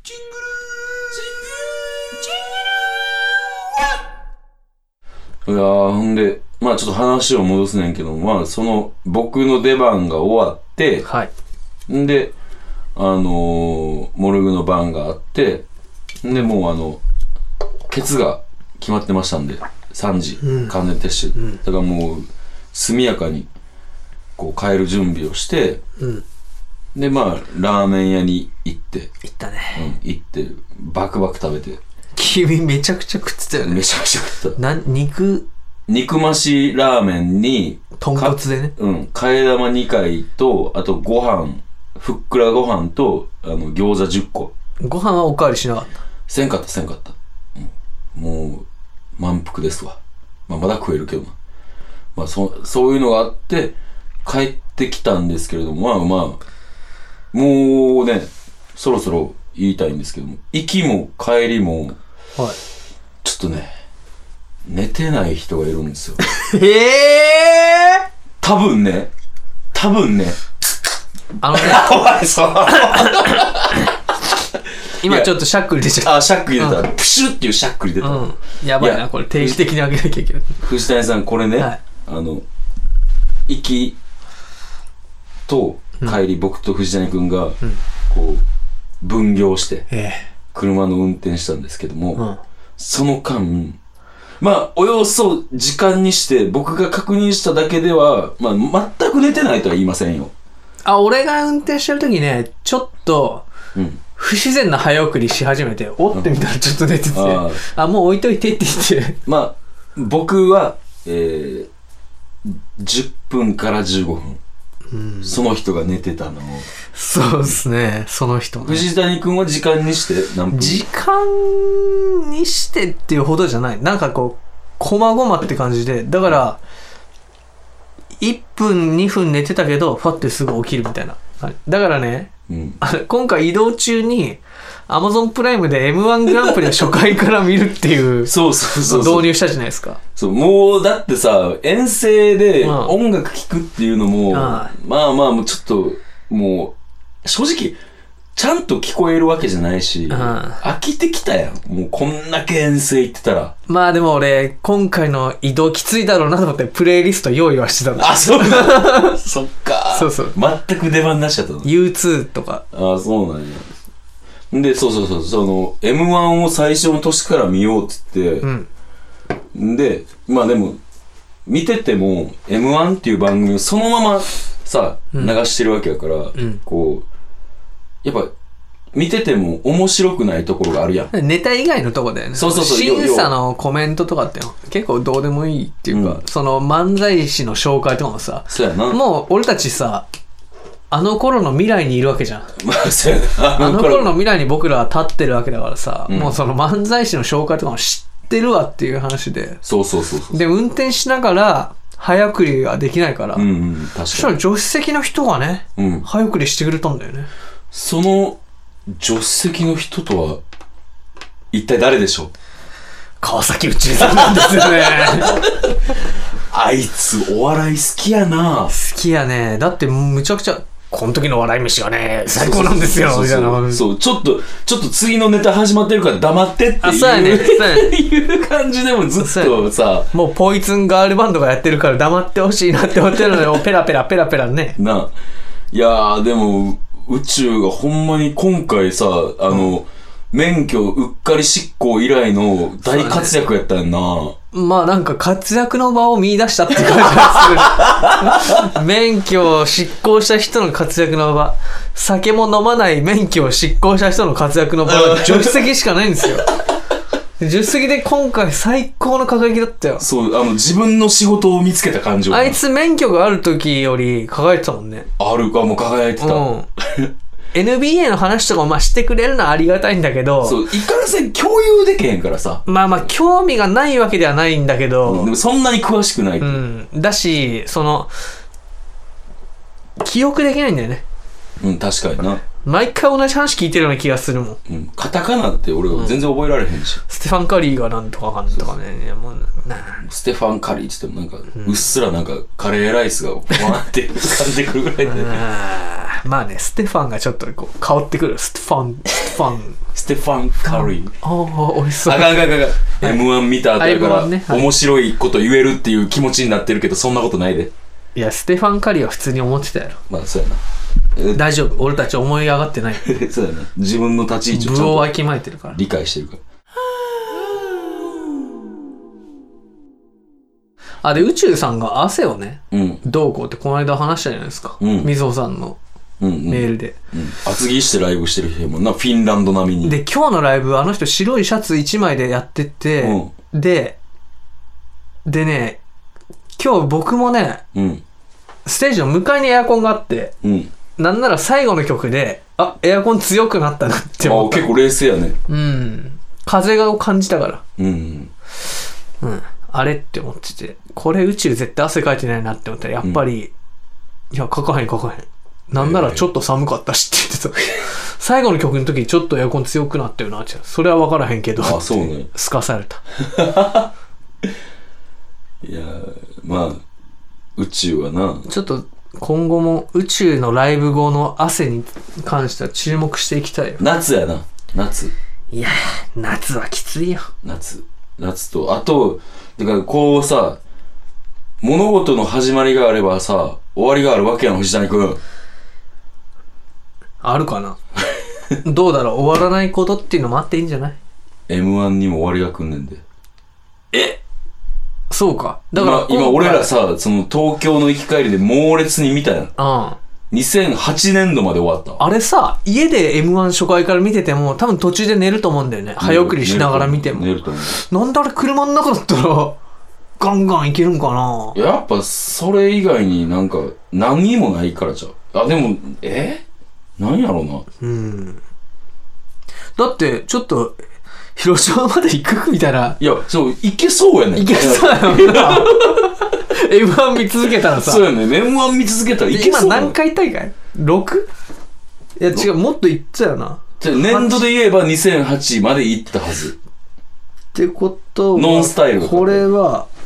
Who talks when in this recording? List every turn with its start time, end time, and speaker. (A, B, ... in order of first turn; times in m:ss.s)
0:00.3-0:03.4 A
0:05.4-0:11.0 A
0:11.0-0:11.3 B
0:11.9-0:12.3 A
0:12.9-0:15.6 A
0:16.2-0:17.0 A
0:17.9-0:23.5 A
0:20.4-0:20.8 B
0:24.4-0:25.8 A
0:26.0-0:26.2 B
0:26.9-0:29.1 A
0:29.2-0:29.9 B
0:29.7-0:31.8 A
0:32.2-0:33.8 B
0:33.6-0:34.6 A
0:34.6-0:35.4 B
0:35.9-0:44.5 A
0:38.0-0:38.7 B
0:44.8-0:45.9 B
0:46.3-0:48.6 A
0:49.2-0:51.3 A
0:52.1-0:56.4 A
0:57.3-1:02.0 A
1:03.2-1:03.7 A
1:04.6-1:06.2 A
1:06.2-1:08.0 B
1:08.4-1:09.1 A
1:09.7-1:10.4 A
1:11.4-1:12.0 B
1:11.5-1:13.9 A
1:12.7-1:13.5 B
1:15.0-1:16.8 B
1:15.0-1:15.4 A
1:16.0-1:19.6 A
1:18.0-1:20.6 B
1:20.6-1:22.4 A
1:23.5-1:24.0 A
1:25.5-1:27.6 A
1:28.1-1:28.4 A
1:29.0-1:29.9 A
1:29.9-1:30.3 B
1:30.5-1:32.2 A
1:32.8-1:33.8 A
1:34.4-1:40.3 A
1:40.8-1:43.5 B
1:43.7-1:44.0 A
1:44.2-1:49.2 B
1:47.1-1:47.6 A
1:49.2-1:51.7 A
1:52.4-1:54.4 A
1:54.9-1:55.4 B
1:55.2-1:56.7 A
1:56.9-1:58.9 B
1:58.6-2:00.8 A
2:00.5-2:06.6 B
2:08.2-2:20.0 B
2:12.5-2:12.8 A
2:18.2-2:19.3 A
2:20.2-2:27.8 A
2:22.6-2:22.9 B
2:24.3-2:24.7 B
2:28.3-2:33.5 A
2:30.1-2:30.6 B
2:33.7-2:39.2 B
2:38.0-2:41.7 A
2:39.9-2:40.4 B
2:41.6-2:42.6 B
2:42.7-2:43.7 A
2:44.5-2:48.5 A
2:48.4-2:48.7 B
2:49.5-2:50.8 A
2:51.4-2:57.0 A
2:55.1-2:55.4 B
2:56.3-2:56.6 B
2:58.0-2:58.3 A
2:58.9-3:01.1 A
3:01.1-3:10.1 B
3:02.3-3:03.3 A
3:05.9-3:06.2 A
3:08.5-3:09.0 A
3:10.9-3:12.5 B
3:12.6-3:14.1 A
3:13.6-3:19.6 B
3:16.1-3:16.4 A
3:19.6-3:20.4 A
3:20.3-3:23.5 B
3:23.3-3:24.4 A
3:24.1-3:27.3 B
3:25.8-3:26.0 A
3:27.7-3:30.4 A
3:31.5-3:32.3 A
3:33.2-3:35.4 B
3:34.0-3:36.0 A
3:36.5-3:38.7 A
3:38.7-3:43.8 B
3:42.3-3:50.1 A
3:46.8-3:47.9 B
3:49.2-3:54.8 B
3:54.8-3:55.1 A
3:55.7-4:04.3 A
4:02.8-4:03.4 B
4:04.5-4:16.5 B
4:07.6-4:08.6 A
4:14.8-4:15.7 A
4:17.4-4:20.0 B
4:20.0-4:22.6 A
4:22.3-4:25.1 B
4:25.2-4:27.1 A
4:26.2-4:26.7 B
4:27.5-4:30.6 B
4:30.4-4:32.6 A
4:32.6-4:35.3 B
4:35.0-4:36.6 A
4:36.4-4:38.1 B
4:40.0-4:41.0 B
4:41.6-4:42.4 A
4:42.6-4:44.6 B
4:44.7-4:47.0 A
4:45.9-4:46.2 B
4:47.1-4:50.0 B
4:50.0-4:55.4 A
4:51.5-4:51.8 B
4:55.0-4:59.8 B
4:59.9-5:01.1 A
5:00.7-5:04.7 B
5:02.0-5:07.7 A
5:08.1-5:10.0 B
5:10.1-5:10.6 A
5:11.2-5:11.4 A
5:11.3-5:13.1 B
5:13.0-5:15.1 A
5:14.5-5:15.8 B
5:15.7-5:16.4 A
5:21.0-5:25.8 B
5:22.7-5:23.0 A
5:24.8-5:25.1 A
5:26.2-5:30.0 A
5:26.5-5:27.0 B
5:29.8-5:34.0 B
5:33.0-5:33.3 A
5:35.2-5:35.8 B
5:36.6-5:37.6 B
5:37.7-5:38.0 A
5:38.6-5:40.3 B
5:40.4-5:40.7 A
5:41.0-5:44.7 B
5:44.2-5:45.4 A
5:45.5-5:47.6 B
5:47.8-5:48.3 A
5:49.2-5:53.5 B
5:54.3-6:03.0 B
5:55.8-5:56.3 A
6:01.6-6:02.3 A
6:03.2-6:03.9 A
6:05.6-6:06.8 A
6:07.6-6:08.4 A
6:08.4-6:13.8 B
6:13.8-6:15.1 A
6:15.5-6:17.3 B
6:17.4-6:20.6 A
6:21.6-6:25.2 A
6:27.2-6:27.8 B
6:28.6-6:31.0 B
6:31.5-6:33.0 A
6:35.1-6:36.7 B
6:35.8-6:39.5 A
6:39.6-6:40.0 B
6:40.3-6:42.0 A
6:42.0-6:49.6 B
6:46.0-6:47.8 A
6:50.2-6:51.6 B
6:51.5-6:56.4 A
6:57.0-6:57.6 A
6:57.8-6:58.4 B
6:59.8-7:00.8 B
7:01.4-7:03.0 B
7:03.0-7:06.1 A
7:04.3-7:08.0 B
7:07.7-7:10.0 A
7:09.3-7:11.3 B
7:12.2-7:14.4 B
7:13.8-7:16.6 A
7:17.5-7:19.9 B
7:18.3-7:19.4 A